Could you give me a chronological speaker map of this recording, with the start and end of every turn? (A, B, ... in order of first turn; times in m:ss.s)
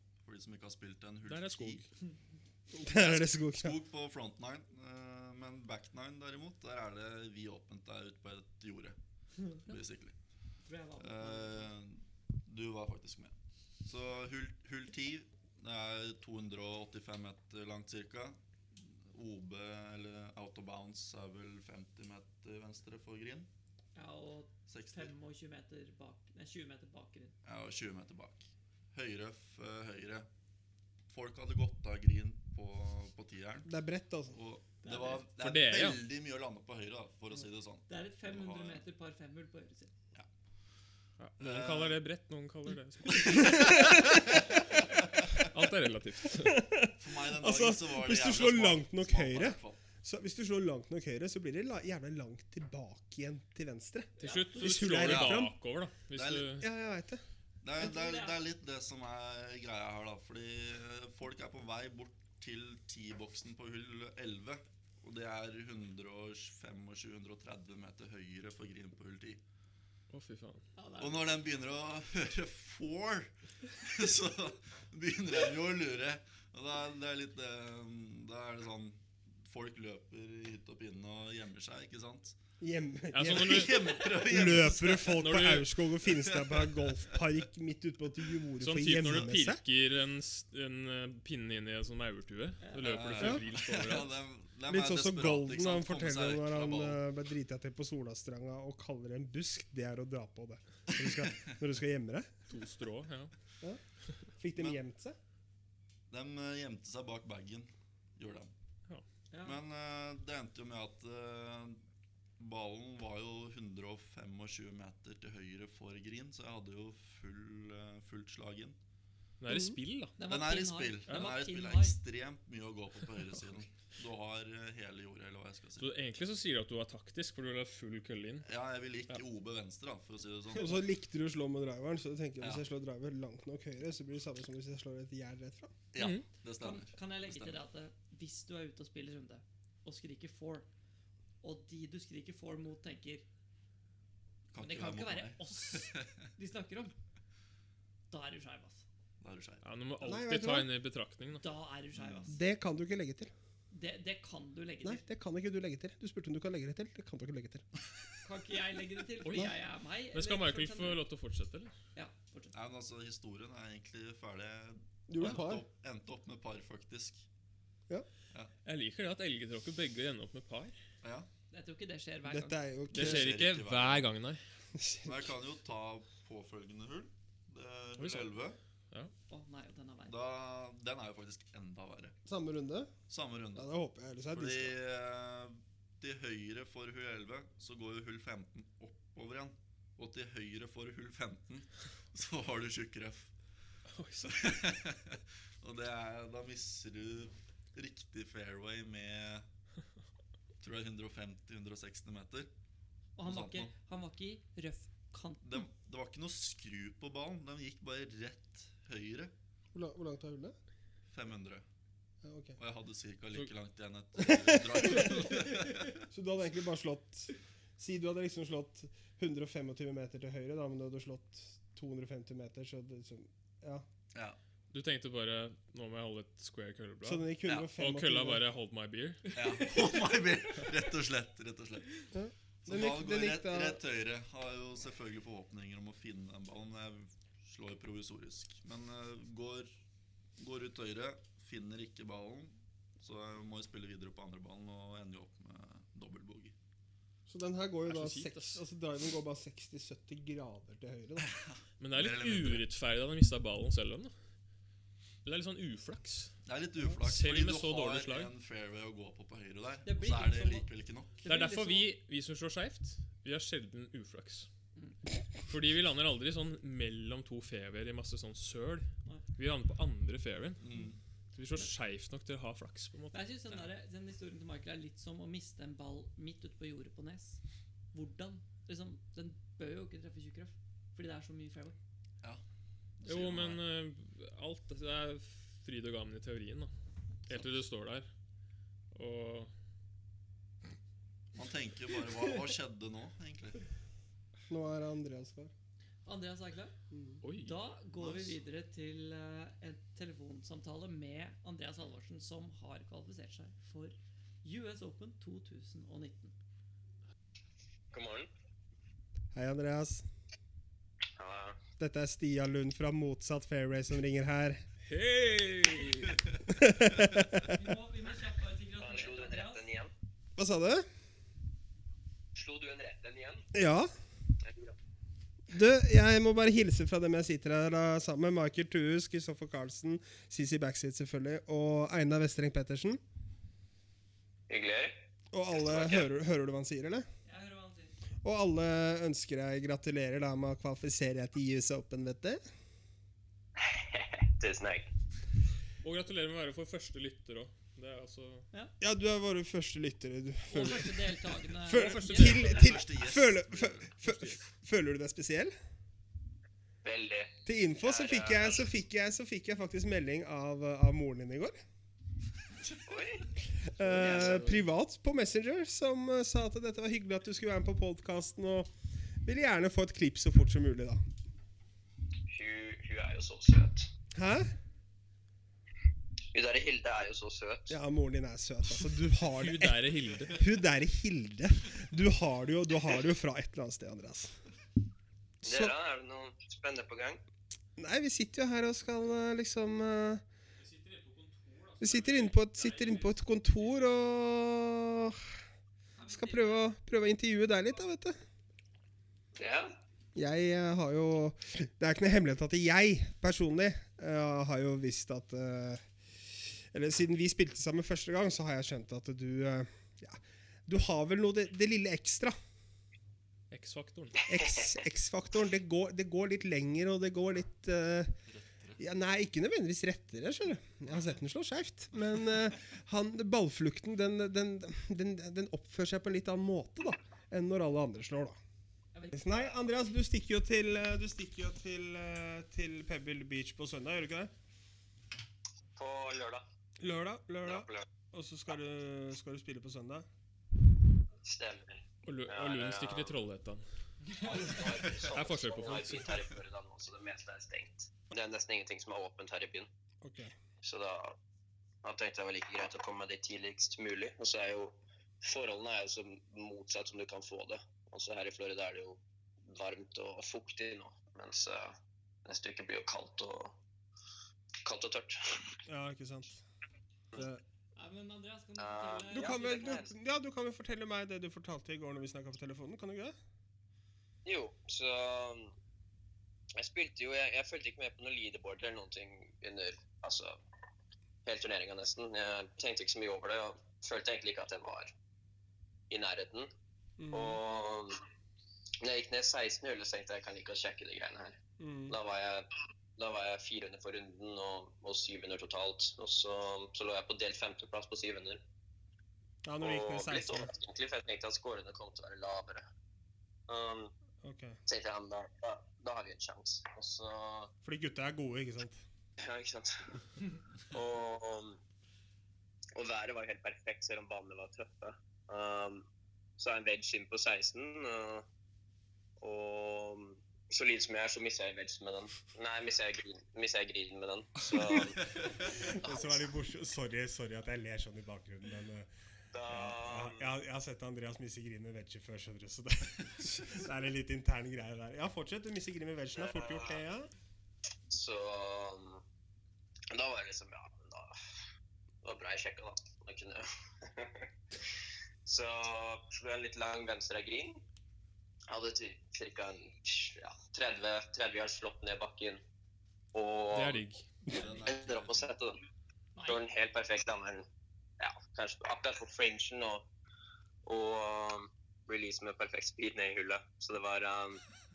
0:00.2-0:01.8 A
0:01.3-0:01.9 B
0:02.7-0:03.8 C
0:02.8-0:09.0 A
0:09.6-0:10.1 A
0:10.6-0:11.7 D
0:11.0-0:23.5 A
0:23.9-0:27.3 D
0:24.7-0:25.1 A
0:27.4-0:30.3 A
0:31.1-0:33.7 A
0:33.6-0:34.4 C
0:34.3-0:38.8 A
0:34.8-0:35.2 D
0:35.4-0:36.0 B
0:37.9-0:39.9 D
0:41.2-0:44.0 B
0:41.4-0:42.0 A
0:43.1-0:44.3 A
0:43.3-0:44.4 C
0:44.9-0:45.4 A
0:45.3-0:46.6 B
0:46.3-0:55.5 C
0:47.0-0:49.8 A
0:54.2-0:55.1 D
0:54.2-0:56.7 B
0:55.0-0:55.5 A
0:56.1-0:56.5 A
0:56.6-0:57.2 C
0:57.6-1:09.4 A
0:57.8-0:58.4 D
1:10.1-1:10.6 B
1:10.8-1:11.4 D
1:11.0-1:22.4 A
1:22.6-1:29.6 C
1:23.1-1:24.1 B
1:23.2-1:25.4 A
1:25.0-1:25.7 B
1:26.1-1:27.0 A
1:28.6-1:34.1 B
1:32.6-1:33.0 D
1:32.8-1:37.0 A
1:34.7-1:42.3 C
1:41.2-1:41.5 A
1:42.5-1:43.3 B
1:44.4-1:45.2 C
1:46.1-1:48.5 A
1:49.3-1:49.6 D
1:49.4-1:51.8 A
1:52.4-1:58.8 A
1:59.4-2:00.1 B
1:59.5-1:59.8 C
2:00.2-2:02.0 D
2:00.2-2:05.9 A
2:01.1-2:01.4 B
2:05.8-2:08.5 B
2:08.4-2:10.8 A
2:10.5-2:15.7 C
2:15.9-2:17.6 A
2:16.0-2:16.2 B
2:16.6-2:20.7 D
2:21.4-2:23.2 D
2:24.5-2:26.1 A
2:24.6-2:26.9 D
2:28.1-2:28.8 D
2:29.2-2:29.6 A
2:29.6-2:31.4 B
2:30.0-2:30.7 C
2:31.4-2:32.4 D
2:32.0-2:32.3 A
2:32.2-2:33.3 C
2:33.7-2:35.0 D
2:34.8-2:37.6 C
2:38.2-2:41.0 D
2:39.2-2:39.5 B
2:40.1-2:41.7 B
2:41.9-2:42.5 D
2:42.5-2:47.2 A
2:45.1-2:45.6 C
2:48.6-2:50.8 B
2:51.0-2:51.3 A
2:51.5-2:52.6 D
2:52.2-2:53.3 C
2:52.9-2:54.4 B
2:52.9-2:54.0 A
2:54.7-2:55.3 C
2:55.0-2:58.6 A
2:58.0-2:58.3 B
2:59.3-3:00.2 D
3:00.1-3:02.2 A
3:02.2-3:02.9 C
3:03.1-3:03.7 A
3:03.5-3:04.7 C
3:04.3-3:13.3 A
3:13.9-3:14.5 B
3:14.2-3:19.4 A
3:20.6-3:22.5 A
3:23.2-3:25.4 D
3:23.2-3:23.7 A
3:25.4-3:29.3 A
3:29.7-3:30.6 C
3:31.1-3:31.6 A
3:32.2-3:32.6 C
3:32.6-3:36.0 A
3:36.1-3:43.8 C
3:44.1-3:44.4 A
3:44.7-3:49.6 B
3:47.0-3:48.4 C
3:49.3-3:52.0 A
3:52.1-3:53.8 C
3:52.6-3:59.7 A
4:00.4-4:06.5 A
4:07.3-4:11.3 C
4:07.9-4:08.6 B
4:11.2-4:12.6 A
4:11.8-4:14.1 B
4:15.2-4:16.3 B
4:16.4-4:21.2 A
4:17.0-4:18.3 B
4:19.8-4:20.7 D
4:21.2-4:21.9 D
4:21.2-4:24.5 B
4:25.5-4:30.6 B
4:30.6-4:31.0 A
4:31.3-4:33.2 B
4:33.1-4:37.4 D
4:37.9-4:41.8 D
4:43.0-4:43.6 A
4:43.0-4:46.7 B
4:47.3-4:48.1 B
4:48.9-4:49.5 B
4:51.3-4:53.6 A
4:54.5-4:55.5 C
4:56.0-4:56.7 D
4:56.9-4:57.2 C
4:57.2-4:57.6 B
4:57.4-5:06.3 D
4:58.0-4:58.4 A
5:07.9-5:08.3 E
5:09.3-5:10.0 C
5:11.2-5:11.6 E
5:11.8-5:14.6 C
5:14.8-5:16.2 B
5:16.5-5:17.5 C
5:17.4-5:19.6 D
5:18.8-5:19.9 E
5:20.4-5:20.8 C
5:22.3-5:23.4 E
5:23.5-5:23.9 C
5:24.4-5:24.7 E
5:25.5-5:33.0 C
5:34.5-5:34.9 E
5:35.3-5:37.0 C
5:35.5-5:36.1 E
5:37.2-5:38.0 D
5:38.2-5:42.4 C
5:43.6-5:44.9 E
5:45.8-5:48.4 B
5:48.8-5:55.5 C
5:50.5-5:52.6 D
5:51.7-5:52.6 B
5:52.0-5:53.9 A
5:54.0-5:54.4 B
5:56.8-5:58.6 E
5:57.4-6:01.6 C
6:02.8-6:03.3 E
6:03.5-6:08.7 C
6:03.8-6:04.6 B
6:04.0-6:04.4 E
6:09.2-6:11.0 C
6:12.3-6:13.9 E
6:14.1-6:14.5 C
6:16.3-6:17.7 E
6:17.7-6:24.4 C
6:19.3-6:20.4 B
6:25.4-6:25.7 C
6:25.4-6:27.2 E
6:27.8-6:30.2 C
6:30.6-6:33.2 B
6:31.8-6:35.2 C
6:35.9-6:36.7 D
6:36.1-6:38.2 C
6:39.4-6:39.7 E
6:40.1-6:52.3 C
6:53.5-6:54.2 B
6:54.3-6:54.7 E
6:54.3-6:58.2 C
6:58.3-6:58.8 A
6:58.8-7:08.4 C
7:08.9-7:09.4 D
7:09.1-7:14.3 C
7:15.8-7:16.4 E
7:16.8-7:20.0 C
7:17.4-7:17.8 E
7:21.2-7:23.2 E
7:22.0-7:23.6 B
7:24.1-7:29.7 E
7:25.1-7:26.2 B
7:30.0-7:30.3 C
7:30.6-7:31.2 E
7:31.8-7:41.7 E
7:42.2-7:43.6 E
7:44.6-7:45.6 E
7:45.7-7:46.4 C
7:47.1-7:47.4 C
7:47.8-7:49.8 D
7:48.6-7:49.9 E
7:49.1-7:53.1 C
7:54.2-7:55.5 E
7:56.6-8:00.4 E
8:01.2-8:04.9 E
8:05.9-8:06.5 E
8:07.0-8:07.4 C
8:07.1-8:08.0 E
8:08.8-8:11.4 E
8:11.6-8:12.0 C
8:11.9-8:18.4 E
8:19.4-8:20.5 C
8:19.6-8:22.6 E
8:23.5-8:23.9 E
8:24.2-8:24.6 C
8:24.7-8:27.5 E
8:27.6-8:28.8 C
8:29.2-8:30.0 E
8:30.7-8:31.6 E
8:32.7-8:35.8 E
8:36.4-8:38.2 E
8:39.2-8:45.0 E
8:45.5-8:48.9 C
8:45.8-8:46.2 E
8:49.3-8:50.3 E
8:49.4-8:57.1 C
8:56.2-8:56.8 E
8:57.9-8:59.0 E
8:59.9-9:01.2 E
9:02.0-9:07.6 E
9:08.5-9:12.4 E
9:13.1-9:13.8 E
9:13.5-9:14.1 B
9:14.3-9:15.3 A
9:14.6-9:15.6 E
9:16.2-9:16.4 D
9:16.2-9:17.4 E
9:18.0-9:19.9 E
9:20.6-9:24.4 E